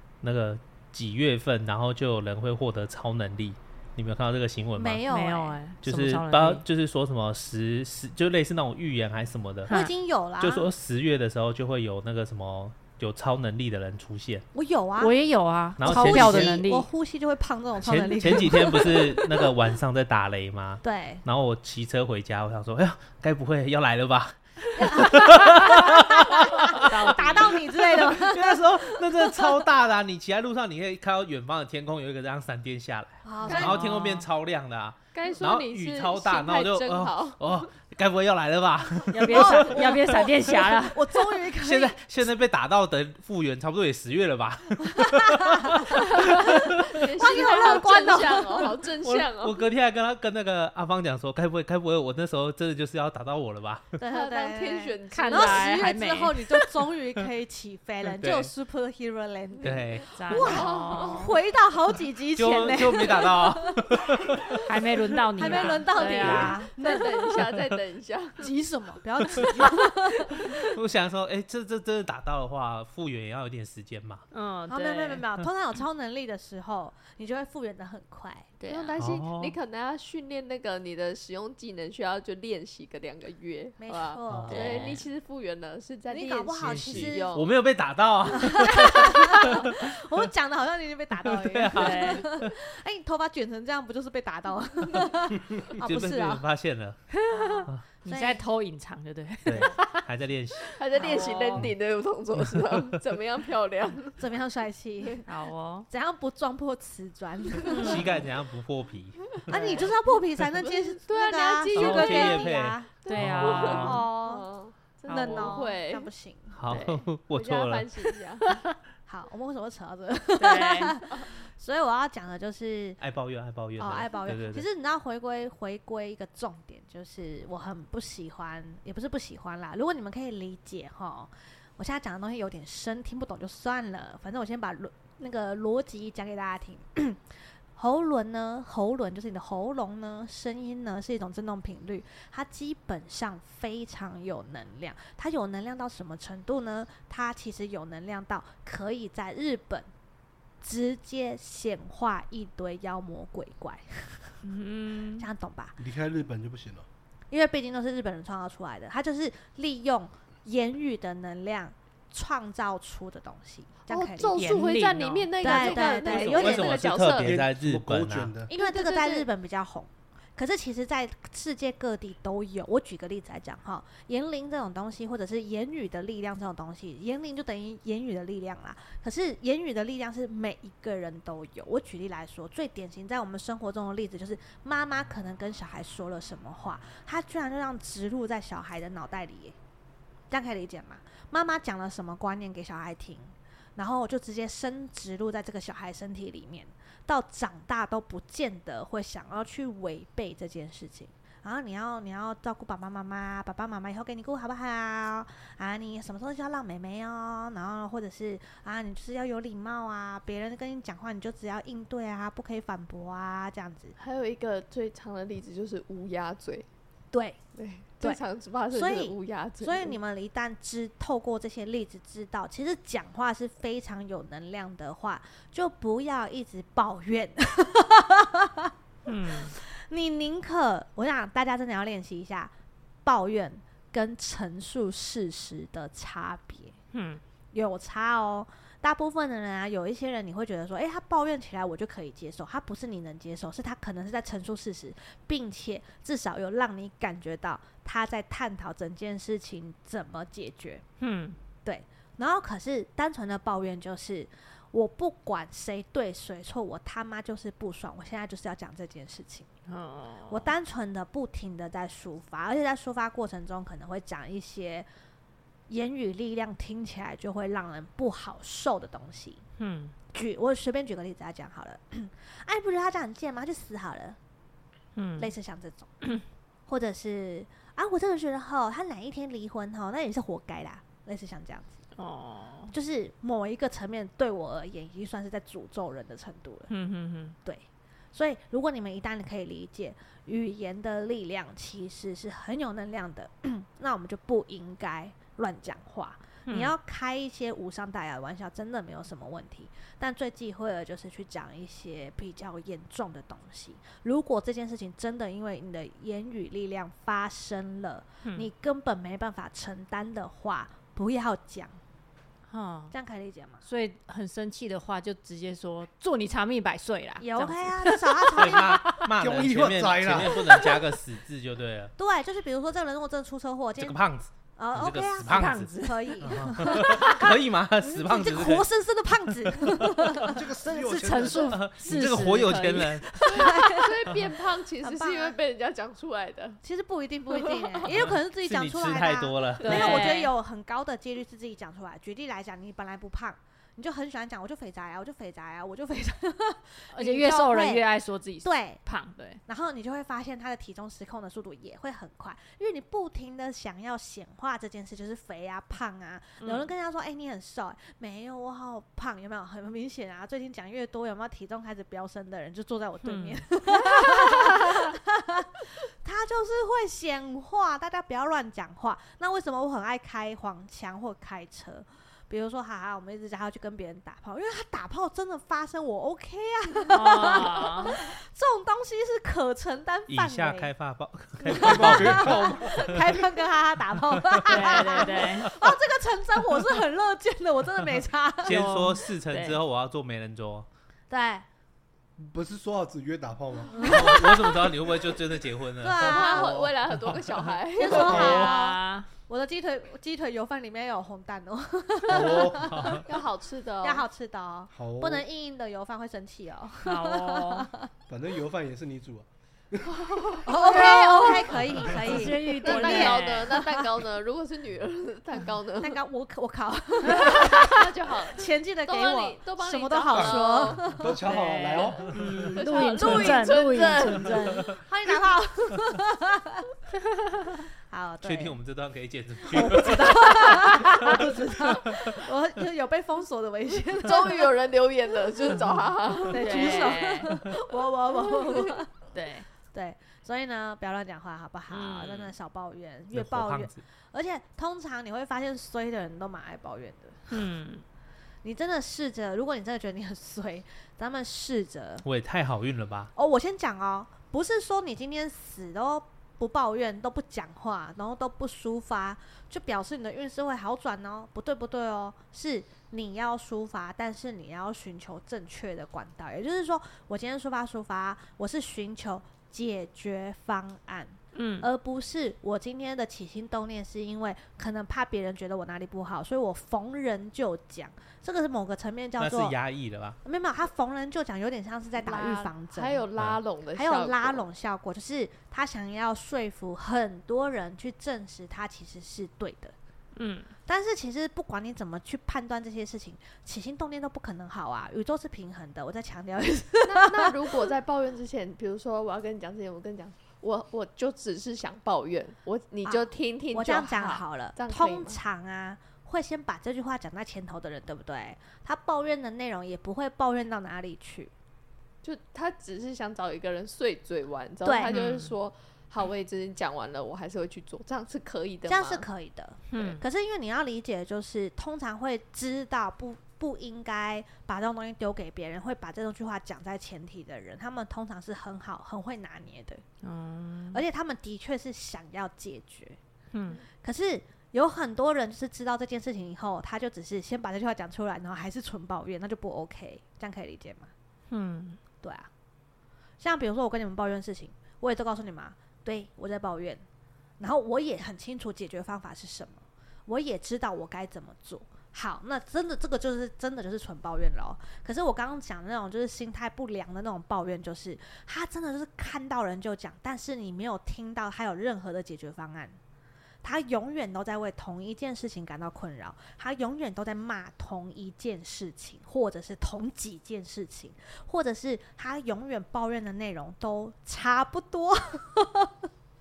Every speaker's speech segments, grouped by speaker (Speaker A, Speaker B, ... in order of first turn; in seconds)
Speaker A: 0.2-5.0, 5.8-9.7, 10.4-14.4, 15.8-16.6, 17.8-39.9, 41.6-47.0, 49.0-53.9, 58.2-58.5, 59.6-60.1, 62.4-64.6, 66.2-66.6, 69.2-69.6, 70.4-74.2, 79.0-79.5, 84.3-84.8, 86.6-90.2, 91.2-92.5, 95.7-97.0, 99.5-100.8, 102.4-103.0, 107.8-109.8, 111.7-114.0, 116.5-117.9, 123.0-124.7, 166.1-168.3, 318.4-321.9, 323.8-328.6, 329.4-330.3, 331.4-333.2, 337.9-339.9, 380.1-383.1, 384.2-385.7, 388.4-390.7, 393.8-397.5, 402.6-403.1, 428.2-432.2, 443.1-443.8, 452.0-453.1, 479.2-480.2
Speaker B: 4.8-5.6, 9.7-10.7, 14.5-15.1, 15.8-19.5, 20.8-21.2, 24.8-29.7, 33.2-34.0, 39.3-42.0, 45.0-48.8, 54.0-64.0, 65.3-67.5, 68.4-70.6, 74.7-78.5, 83.8-85.0, 86.1-87.4, 88.3-96.4, 97.3-98.4, 104.2-105.3, 105.9-108.2, 109.3-114.5, 115.1-116.8, 119.0-123.0, 123.8-137.2, 137.8-149.9, 150.6-154.4, 155.2-155.8, 157.3-164.6, 165.4-166.9, 168.5-189.6, 190.3-213.9, 217.1-217.4, 218.0-228.7, 229.5-232.5, 233.0-236.8, 237.5-250.8, 251.6-259.5, 260.3-264.9, 265.7-269.4, 270.1-274.2, 275.2-275.9, 276.7-281.8, 282.7-286.7, 287.4-311.8, 312.9-313.6, 317.2-318.9, 322.0-324.0, 324.6-331.6, 333.2-334.2, 334.8-335.4, 336.6-347.8, 348.4-348.8, 349.4-380.7, 381.4-388.7, 391.1-391.4, 393.8-394.7, 395.8-396.7, 397.8-403.1, 403.8-407.9, 410.4-413.9, 415.8-421.3, 423.0-423.4, 424.8-426.7, 427.9-428.6, 429.4-434.5, 436.2-438.9, 439.7-447.4, 448.4-452.0, 453.1-479.6, 480.2-483.1, 483.7-489.7, 490.6-497.3, 502.8-511.3, 514.6-515.0, 518.7-529.8, 530.7-533.0, 533.8-540.9, 542.0-542.3, 543.2-546.8, 547.4-562.8, 563.4-575.9
Speaker C: 5.1-6.6, 9.7-9.9, 15.0-16.9, 26.8-27.6, 33.4-34.3, 39.1-41.2, 55.1-56.4, 60.1-61.3, 64.6-66.6, 74.3-75.2, 78.6-79.0, 84.5-85.0, 91.7-92.2, 97.1-100.0, 100.9-101.7, 105.2-105.9, 107.7-108.2, 113.1-114.0, 115.1-115.6, 116.7-117.0, 118.4-118.7, 120.4-121.0, 154.4-155.3, 164.3-166.2, 229.1-229.5, 236.9-237.2, 251.0-251.4, 259.7-260.5, 269.6-269.9, 274.9-275.3, 282.0-282.7, 286.7-287.3, 296.4-296.7, 312.5-312.9, 313.6-319.1, 325.2-326.9, 330.8-333.8, 339.6-340.3, 346.9-349.4, 356.4-356.7, 363.0-364.9, 376.9-378.0, 384.4-385.5, 388.4-389.6, 397.9-399.1, 406.8-407.7, 410.5-411.2, 411.9-413.6, 421.2-424.8, 427.3-427.6, 436.3-437.4, 439.1-439.5, 441.7-442.3, 447.3-447.8, 471.3-471.7, 490.1-490.5, 514.8-515.3, 519.7-520.0, 530.0-530.8, 533.3-533.6, 541.3-541.8
Speaker D: 33.5-33.8, 35.1-37.7, 45.9-49.6, 54.1-55.7, 60.4-61.3, 65.4-68.5, 78.7-87.5, 100.8-104.2, 109.5-109.9, 110.6-116.1, 117.3-118.5, 163.9-167.4, 168.5-169.3, 214.0-216.7, 217.5-220.0, 333.2-336.6, 337.3-337.9, 339.7-340.1, 396.0-398.4, 403.1-404.0, 410.0-411.4, 412.5-416.0, 417.1-420.9, 422.5-424.8, 433.9-436.9, 438.1-438.8, 482.0-484.5, 496.8-505.2, 512.0-519.0
Speaker E: 155.8-156.9, 167.0-168.5, 319.0-320.5, 330.2-331.6, 381.5-383.2, 392.2-393.9, 397.9-398.4, 402.0-403.0, 404.7-405.2, 408.1-410.4, 420.1-422.5, 431.2-431.5